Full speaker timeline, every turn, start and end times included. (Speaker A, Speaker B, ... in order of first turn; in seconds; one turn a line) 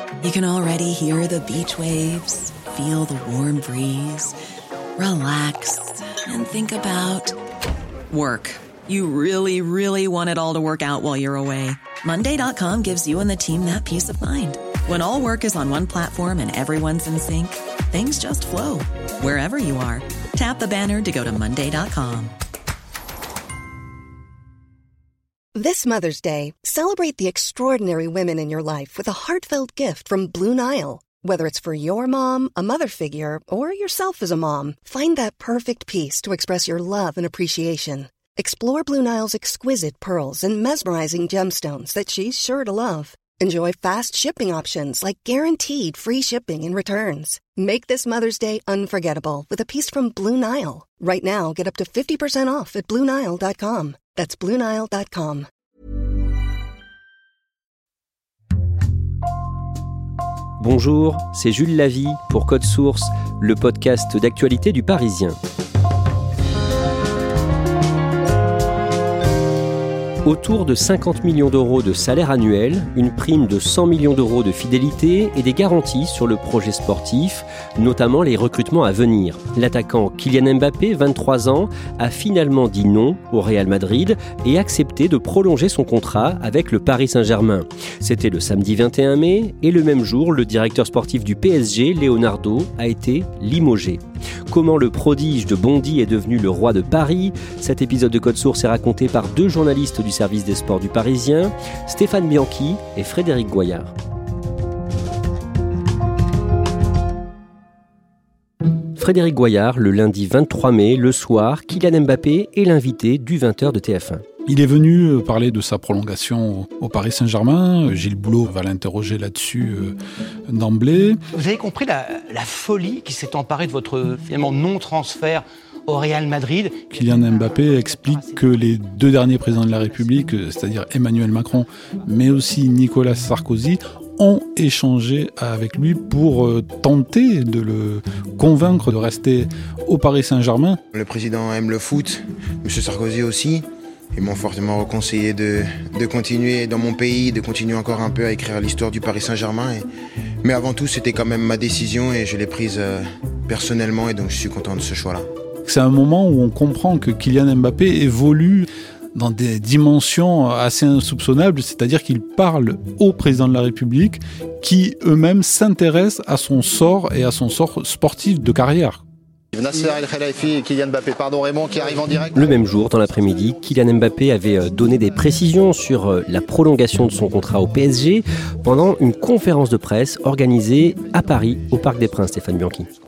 Speaker A: 0.2-4.4
Speaker A: 5.0-7.4
Speaker A: 8.1-22.3
Speaker B: 25.6-55.5
Speaker C: 60.6-65.4
Speaker C: 70.2-103.9
Speaker C: 109.0-114.2
Speaker D: 114.5-120.0
Speaker D: 120.5-121.2
Speaker E: 121.3-127.0
Speaker D: 126.9-140.8
Speaker F: 140.9-149.8
Speaker F: 150.4-155.3
Speaker D: 155.7-169.0
Speaker G: 169.5-172.5
Speaker C: 172.3-182.9